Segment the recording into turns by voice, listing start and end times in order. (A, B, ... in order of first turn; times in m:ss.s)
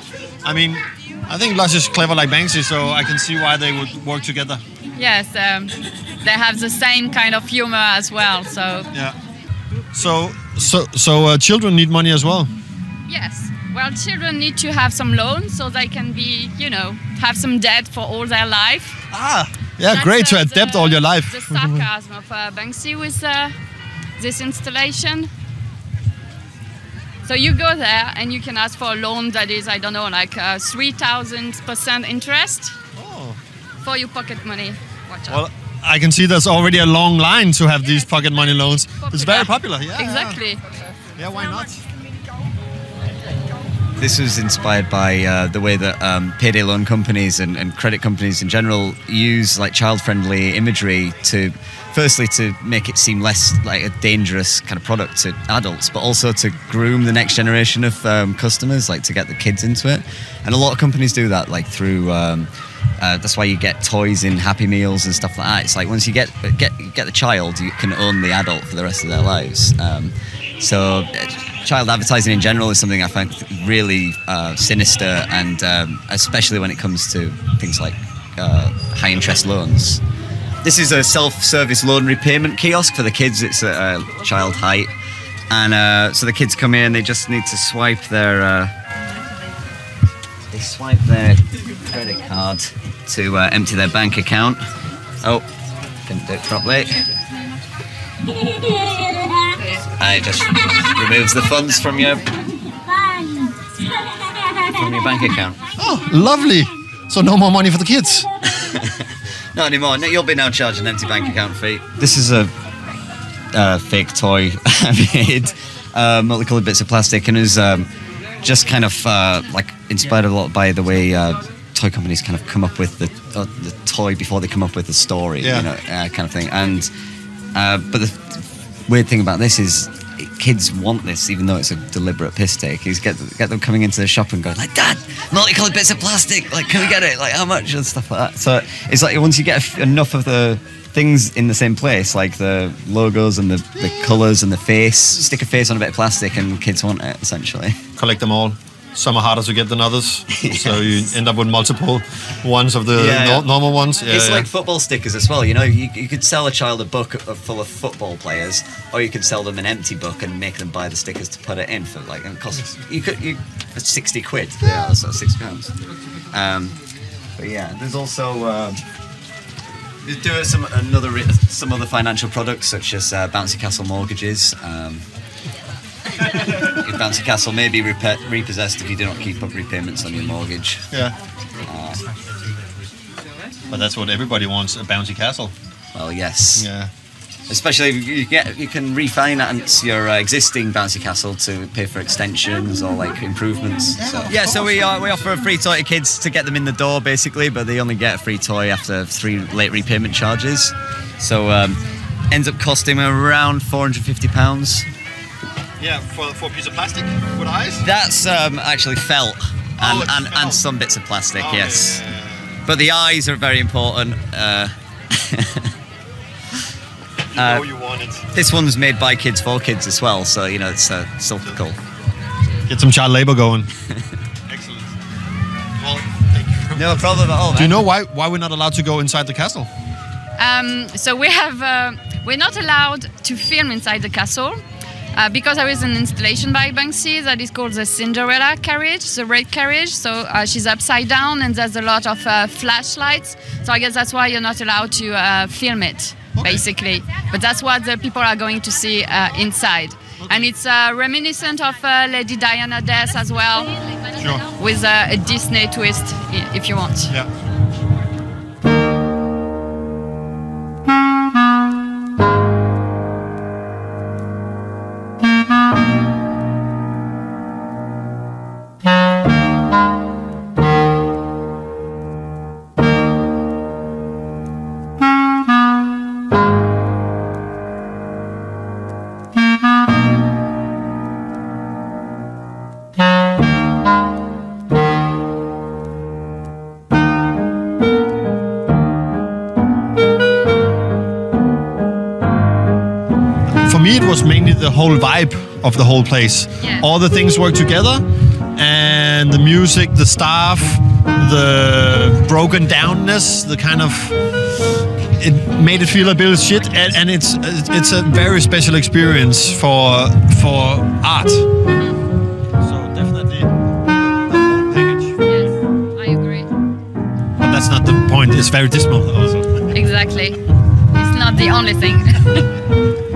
0:00.4-0:04.6 A
0:05.0-0:08.9 B
0:09.9-0:12.5 A
0:13.1-0:19.0 B
0:19.1-0:21.8 A
0:19.9-0:23.5 B
0:24.2-0:25.3 B
0:27.2-0:32.8 B
0:33.0-0:33.4 A
0:33.8-0:35.4 B
0:35.3-0:40.4 A
0:38.0-0:38.4 B
0:39.0-0:40.6 B
0:41.2-0:41.8 A
0:44.0-1:20.0 C
1:20.6-1:24.9 C
1:25.5-1:28.7 C
1:30.5-1:34.6 C
1:35.2-1:35.5 C
1:36.0-1:37.0 C
1:39.7-1:42.5 C
1:44.5-1:45.6 C
1:45.8-1:48.3 A
1:48.5-1:52.5 C
1:53.5-2:06.9 C
2:05.4-2:05.7 A
2:07.5-2:27.8 C
2:23.8-2:24.2 A
2:28.0-2:34.5 A
2:30.3-2:31.1 C
2:32.9-2:33.5 C
2:34.0-2:45.8 C
2:46.3-2:46.8 C
2:47.4-2:48.8 C
2:50.0-2:55.0 C
2:56.3-3:00.9 C
3:00.9-3:01.2 A
3:01.6-3:02.1 C
3:03.7-3:05.5 A
3:05.9-3:06.7 C
3:06.6-3:06.9 A
3:07.5-3:21.8 C
3:14.0-3:15.3 A
3:22.3-3:24.9 C
3:25.8-3:27.9 A
3:27.8-3:32.0 C
3:29.8-3:30.6 A
3:31.4-3:32.6 A
3:32.6-3:35.7 C
3:37.3-3:38.3 A
3:37.4-3:37.7 C
3:38.3-3:41.8 C
3:42.7-3:43.7 A
3:44.5-3:44.9 A
3:45.8-3:49.7 A
3:46.7-3:47.8 C
3:50.4-3:54.6 B
3:55.1-4:17.1 B
4:06.3-4:06.6 A
4:10.2-4:10.5 A
4:14.1-4:14.5 A
4:53.4-5:04.2 A
4:56.6-4:56.9 B
5:05.2-5:11.5 A
5:11.7-5:12.0 B
5:12.6-5:15.5 A
5:15.2-5:16.5 B
5:17.4-5:19.8 A
5:19.7-5:20.4 B
5:20.9-5:22.5 B